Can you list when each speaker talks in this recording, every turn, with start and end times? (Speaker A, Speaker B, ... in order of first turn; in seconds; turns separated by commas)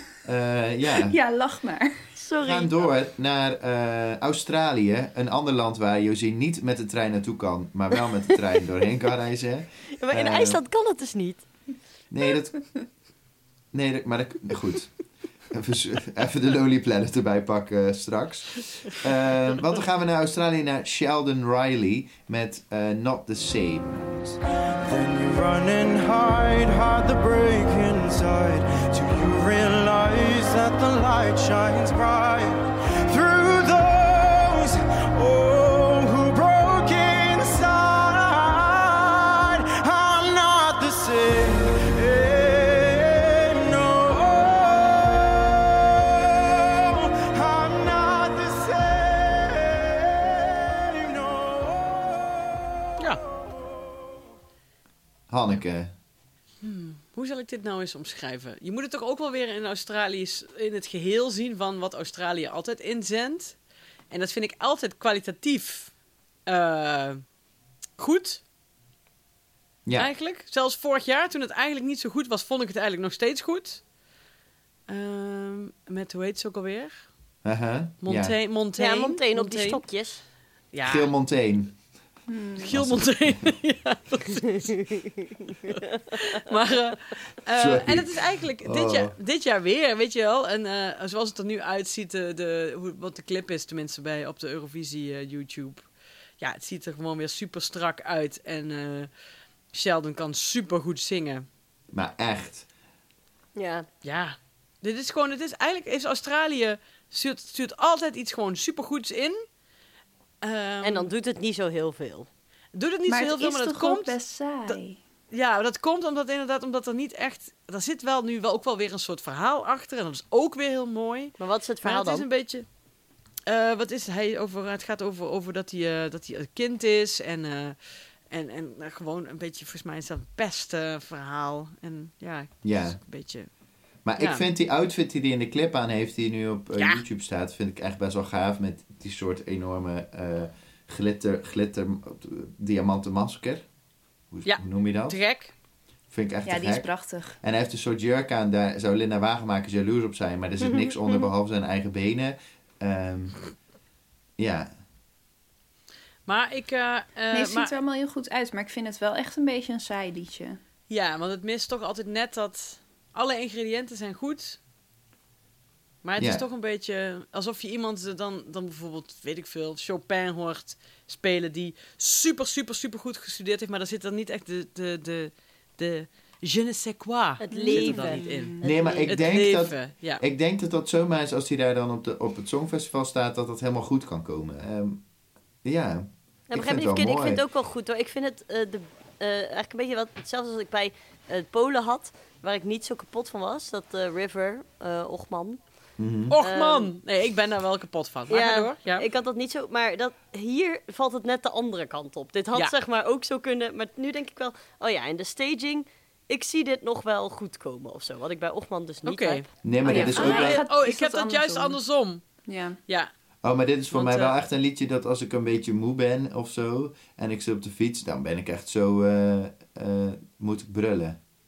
Speaker A: 0.3-1.2, Speaker B: 1.0-2.1, Speaker C: 2.2-2.8, Speaker A: 2.4-10.6, Speaker C: 10.0-11.5, Speaker A: 12.1-12.6, Speaker A: 13.7-14.9, Speaker A: 15.5-24.2, Speaker D: 24.8-52.6, Speaker A: 55.3-55.9, Speaker E: 56.6-63.6, Speaker E: 64.1-65.9, Speaker E: 66.5-67.2, Speaker E: 68.0-68.4, Speaker E: 70.0-73.8, Speaker E: 74.9-77.1, Speaker A: 77.4-78.4, Speaker E: 78.0-79.8, Speaker C: 78.8-80.2, Speaker E: 80.7-81.1, Speaker A: 80.8-81.8, Speaker B: 82.3-82.7, Speaker E: 82.6-95.9, Speaker A: 82.7-83.5, Speaker A: 87.6-89.2, Speaker E: 96.4-99.1, Speaker E: 99.7-101.5, Speaker A: 101.9-102.7, Speaker C: 103.6-103.9, Speaker E: 104.0-109.5, Speaker E: 110.4-111.1, Speaker C: 110.8-112.3, Speaker E: 112.7-114.8, Speaker B: 113.1-115.0, Speaker E: 115.3-122.7, Speaker C: 121.4-122.3, Speaker E: 123.5-127.8, Speaker E: 128.3-133.5, Speaker A: 132.6-133.0, Speaker A: 134.1-143.7, Speaker E: 134.2-134.4, Speaker E: 136.8-137.0, Speaker A: 144.3-145.2, Speaker E: 144.5-145.5, Speaker A: 146.1-153.4, Speaker B: 146.4-147.4, Speaker A: 154.4-154.7, Speaker E: 156.3-157.8, Speaker B: 157.3-160.6, Speaker E: 160.9-164.6, Speaker E: 166.0-180.2, Speaker A: 166.2-166.4, Speaker C: 177.4-179.3, Speaker B: 177.5-178.6, Speaker A: 178.6-185.0, Speaker A: 185.6-187.4, Speaker C: 186.5-195.6, Speaker A: 196.0-196.4, Speaker E: 196.3-199.1, Speaker C: 196.4-196.9, Speaker C: 198.3-210.1, Speaker E: 209.1-213.1, Speaker A: 209.6-210.7, Speaker B: 209.8-211.8, Speaker B: 212.4-212.8, Speaker A: 213.4-221.2, Speaker E: 213.9-214.4